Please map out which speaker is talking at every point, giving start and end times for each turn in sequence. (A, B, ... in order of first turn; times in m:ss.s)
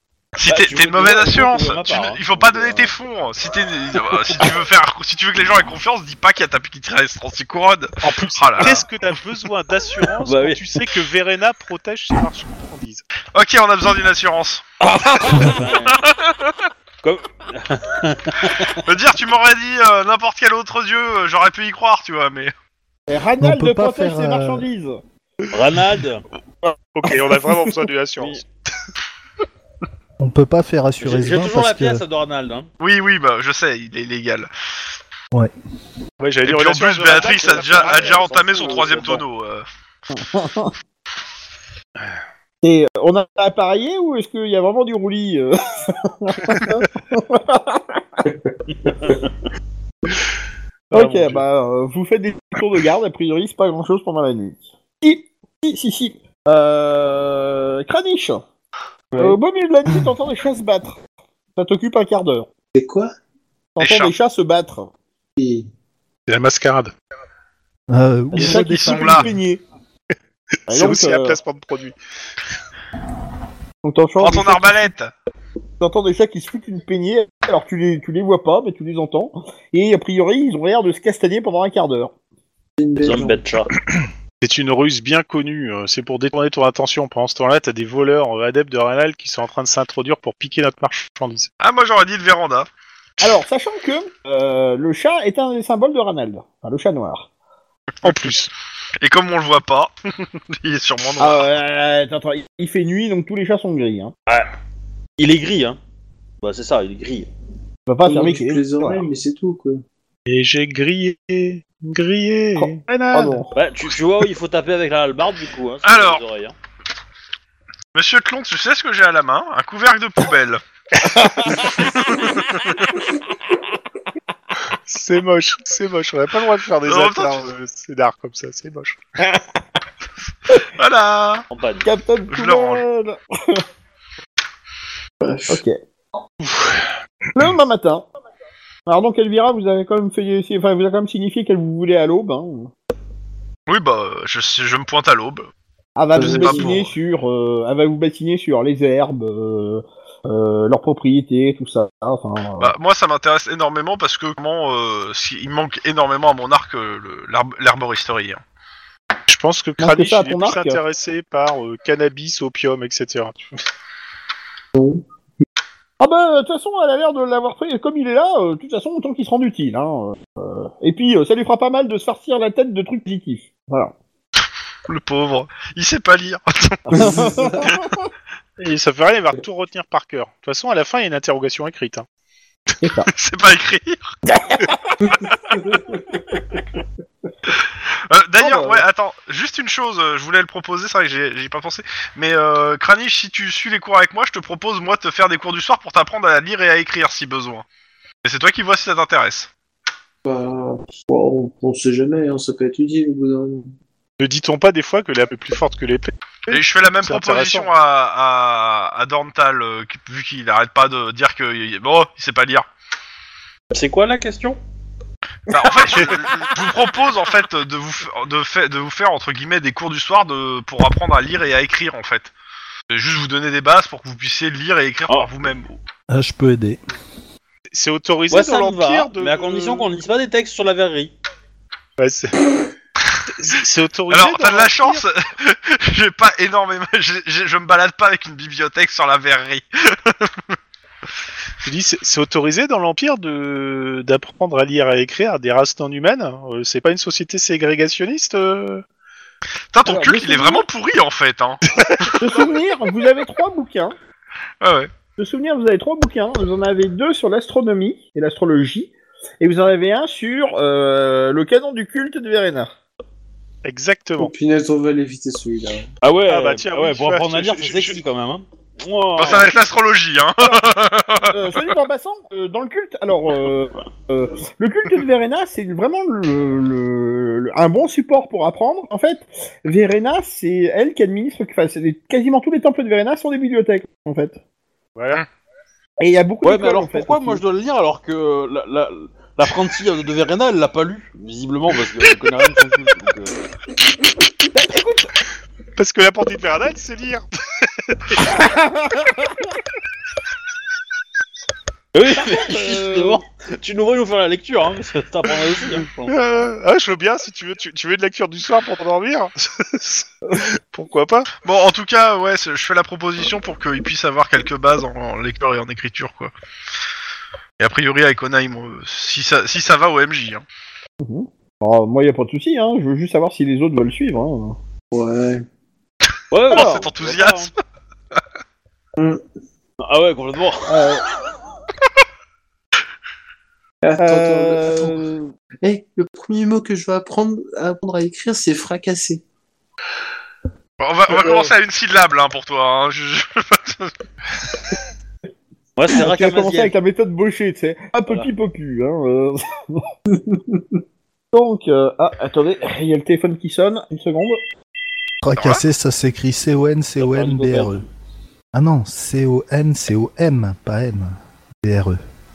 0:00.4-0:08.8 A
0:00.4-0:02.9 B
0:08.0-0:13.0 C
0:10.2-0:10.6 B
0:13.3-0:14.6 A
0:14.8-0:16.0 B
0:15.3-0:16.5 A
0:17.0-0:18.8 B
0:18.7-0:22.5 A
0:23.1-0:25.0 D
0:23.4-0:24.6 E
0:25.5-0:26.2 B
0:26.9-0:28.4 C
0:28.2-0:28.4 B
0:30.2-0:32.0 E
0:31.0-0:32.7 B
0:32.8-0:34.5 A
0:36.2-0:39.2 C
0:36.4-0:39.6 A
0:37.0-0:39.2 B
0:40.1-0:40.7 D
0:42.6-0:48.2 D
0:48.3-0:49.2 F
0:50.9-0:51.4 C
0:50.9-0:58.4 D
0:59.1-0:59.4 F
0:59.2-1:01.0 D
1:01.6-1:02.5 D
1:02.7-1:03.1 F
1:03.8-1:04.9 D
1:03.8-1:04.1 A
1:05.4-1:05.7 F
1:06.3-1:06.9 C
1:07.9-1:09.3 E
1:08.3-1:09.6 D
1:08.3-1:09.3 A
1:10.7-1:11.9 C
1:10.7-1:11.4 D
1:13.8-1:14.9 D
1:14.2-1:15.1 A
1:15.8-1:22.1 D
1:22.8-1:23.4 F
1:23.0-1:23.7 B
1:24.4-1:31.5 C
1:31.6-1:32.7 A
1:33.2-1:37.3 D
1:38.0-1:38.3 A
1:38.0-1:38.5 C
1:39.0-1:39.9 A
1:40.5-1:41.5 A
1:41.2-1:44.1 D
1:45.2-1:45.8 B
1:46.4-1:47.3 B
1:47.9-1:49.0 D
1:48.0-1:49.8 F
1:50.3-1:53.4 C
1:52.6-1:53.5 D
1:53.5-1:56.5 B
1:55.8-1:56.2 A
1:57.9-2:00.6 A
2:01.0-2:02.2 D
2:01.8-2:03.0 A
2:04.7-2:09.0 C
2:06.8-2:07.5 A
2:10.6-2:11.4 A
2:11.5-2:11.9 B
2:11.8-2:13.6 D
2:12.3-2:12.8 A
2:15.2-2:15.6 F
2:15.5-2:15.8 D
2:16.4-2:16.9 C
2:17.3-2:18.0 D
2:18.8-2:22.7 D
2:23.7-2:25.5 A
2:26.0-2:32.7 D
2:26.1-2:26.8 F
2:26.2-2:26.9 A
2:32.6-2:38.4 A
2:39.3-2:43.5 C
2:39.8-2:40.8 D
2:44.7-2:45.0 F
2:46.0-2:53.9 D
2:54.9-2:57.1 A
2:56.9-2:57.9 D
2:56.9-2:57.6 F
2:58.6-3:02.0 C
3:02.8-3:03.1 D
3:03.1-3:04.2 A
3:04.3-3:05.0 D
3:05.2-3:05.6 A
3:05.6-3:06.1 F
3:07.5-3:17.6 A
3:08.4-3:08.8 D
3:18.2-3:19.5 A
3:20.2-3:23.7 F
3:24.2-3:27.7 C
3:26.5-3:32.7 A
3:33.7-3:34.6 B
3:35.5-3:42.3 A
3:35.6-3:36.1 D
3:42.9-3:45.8 A
3:46.1-3:46.8 E
3:47.7-3:49.9 C
3:48.3-3:51.1 B
3:52.0-3:52.4 C
3:53.3-3:55.0 C
3:54.1-4:00.4 A
4:01.6-4:08.8 C
4:09.7-4:12.3 A
4:09.8-4:10.6 D
4:11.8-4:12.2 C
4:12.2-4:13.9 D
4:14.6-4:14.9 A
4:15.2-4:22.7 D
4:23.6-4:24.3 C
4:24.2-4:25.9 F
4:26.0-4:29.5 B
4:26.3-4:28.0 C
4:29.2-4:31.7 A
4:31.3-4:44.4 D
4:44.9-4:45.2 C
4:46.0-4:47.4 D
4:46.4-4:53.3 B
4:54.5-4:55.1 D
4:55.8-4:57.2 C
4:57.8-4:58.2 C
4:58.2-4:59.5 D
5:01.9-5:06.2 B
5:02.1-5:03.2 D
5:06.1-5:11.3 C
5:11.4-5:16.3 A
5:17.6-5:20.4 A
5:21.0-5:24.6 D
5:24.9-5:25.4 F
5:26.3-5:27.5 B
5:26.5-5:27.5 A
5:26.5-5:26.9 D
5:29.0-5:29.2 F
5:29.8-5:31.0 B
5:30.7-5:31.0 D
5:33.8-5:39.2 F
5:34.0-5:35.2 D
5:40.8-5:44.5 A
5:41.2-5:41.5 F
5:45.8-5:46.7 B
5:45.9-5:49.9 D
5:50.1-5:50.6 F
5:51.3-5:54.4 D
5:55.2-5:57.8 E
5:55.3-5:55.6 A
5:57.0-5:57.8 B
5:58.5-6:02.0 E